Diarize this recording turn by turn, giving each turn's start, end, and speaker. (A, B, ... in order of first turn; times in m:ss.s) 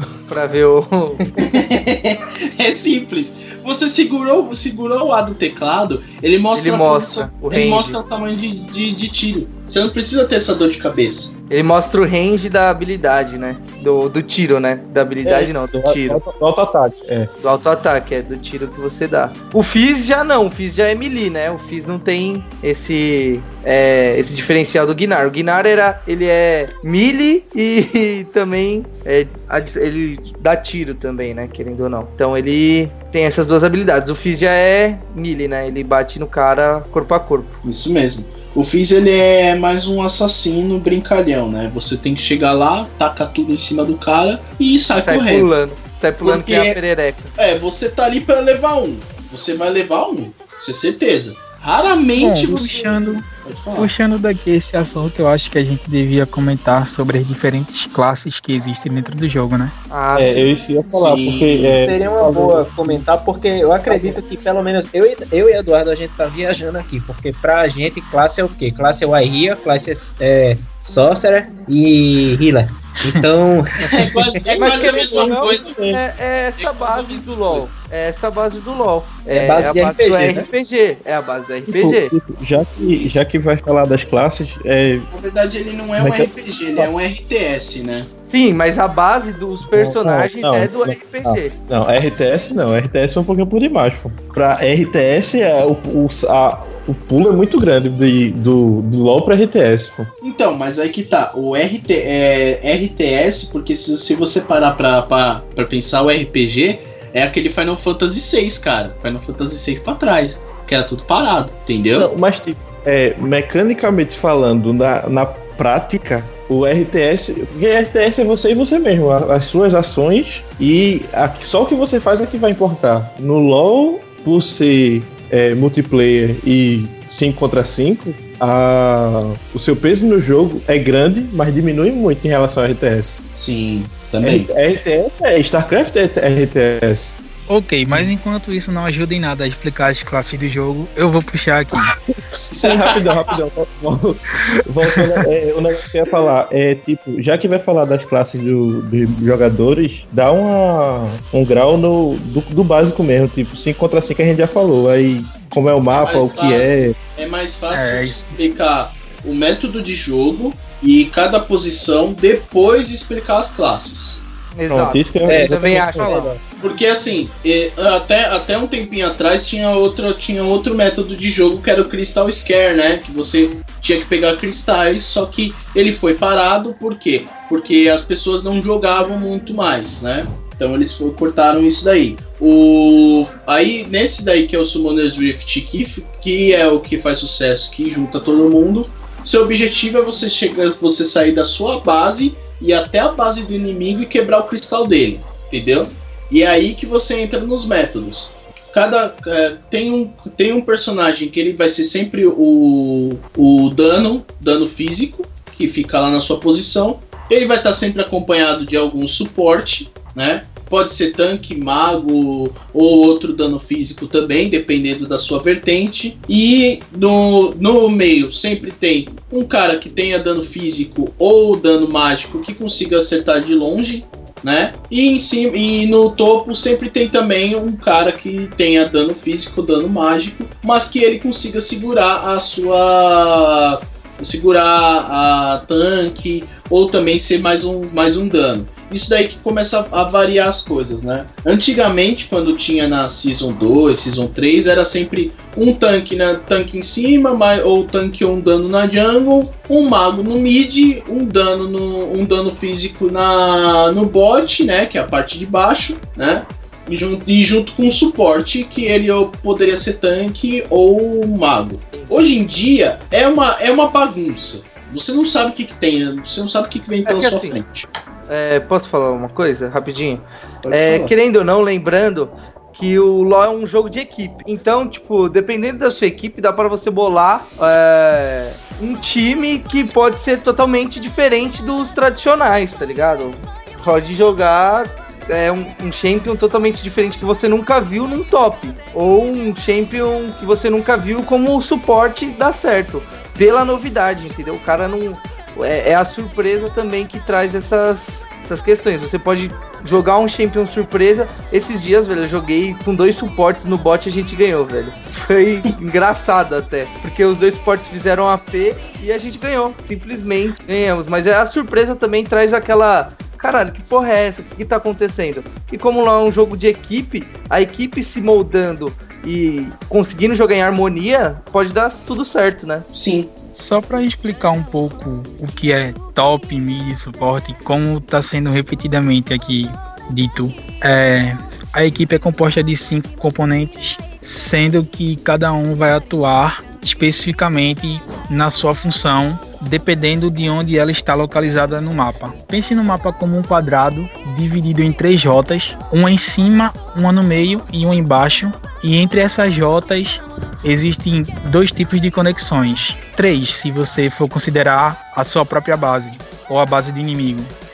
0:00.3-0:01.3 A
0:01.4-0:11.3 B
0:06.5-0:08.0 A
0:11.5-0:16.2 A
0:15.2-0:15.5 B
0:15.7-0:17.3 C
0:17.4-0:37.6 A
0:37.6-0:45.5 B
0:44.9-0:47.3 A
0:46.2-0:46.8 B
0:47.4-0:53.9 B
0:52.2-0:53.3 D
0:53.8-0:59.8 D
0:59.9-1:00.5 A
1:00.2-1:03.1 C
1:00.9-1:01.8 B
1:01.8-1:14.2 E
1:03.9-1:04.2 C
1:13.9-1:15.8 B
1:14.5-1:22.1 A
1:14.9-1:16.0 C
1:16.6-1:17.7 B
1:19.3-1:20.5 E
1:21.7-1:25.1 C
1:25.1-1:28.1 B
1:26.0-1:26.9 C
1:28.3-1:31.6 A
1:29.6-1:40.1 C
1:40.2-1:52.1 B
1:52.0-2:13.2 C
2:13.4-2:14.5 B
2:14.2-2:17.2 C
2:17.5-2:21.9 D
2:22.5-2:37.0 C
2:22.6-2:23.0 B
2:35.9-2:44.2 B
2:37.7-2:38.4 D
2:44.6-2:46.4 A
2:44.7-2:46.1 C
2:45.3-2:46.4 E
2:46.6-4:27.9 B
4:27.1-4:27.6 A
4:28.3-5:22.8 A
4:30.6-4:31.1 B
5:22.9-5:23.3 B
5:23.6-5:57.5 D